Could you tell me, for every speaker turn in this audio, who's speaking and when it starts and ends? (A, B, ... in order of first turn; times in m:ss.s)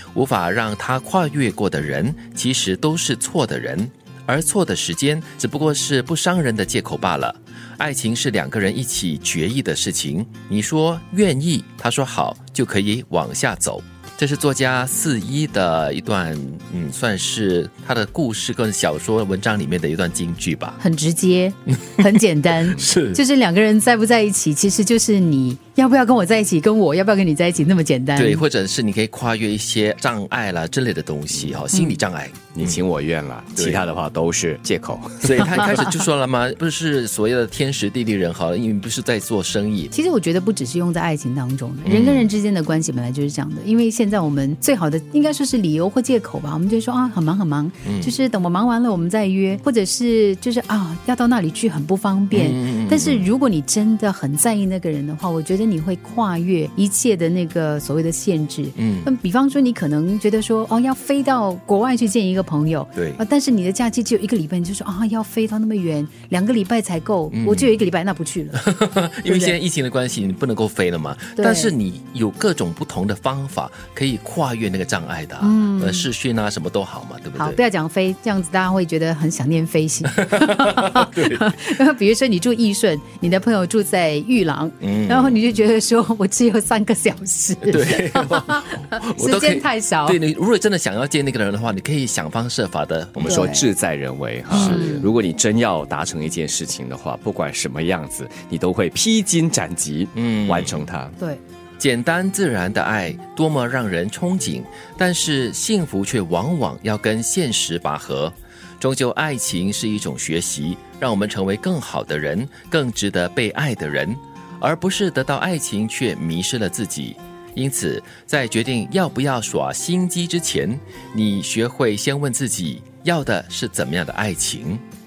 0:00.1-0:20.8 A
0:20.8-0:28.4 B
0:22.7-0:23.2 A
0:28.2-0:32.8 A
0:31.4-0:31.6 C
0:31.7-0:32.0 B
0:32.5-0:35.8 C
0:33.6-0:33.8 A
0:35.2-0:39.9 A
0:35.5-0:35.9 B
0:39.9-1:08.6 B
0:41.8-0:42.3 A
0:47.8-0:48.1 A
0:52.3-0:53.3 A
0:58.8-0:59.1 A
1:02.9-1:03.2 A
1:07.3-1:07.8 A
1:08.5-1:17.6 A
1:09.2-1:09.6 B
1:11.4-1:11.7 B
1:15.4-1:16.1 B
1:17.4-1:30.2 B
1:20.3-1:21.4 A
1:24.8-1:25.4 A
1:27.7-1:33.5 A
1:33.2-1:41.1 C
1:33.2-1:33.7 B
1:34.5-1:35.1 A
1:34.5-1:35.1 B
1:40.1-1:40.9 A
1:41.8-2:04.8 A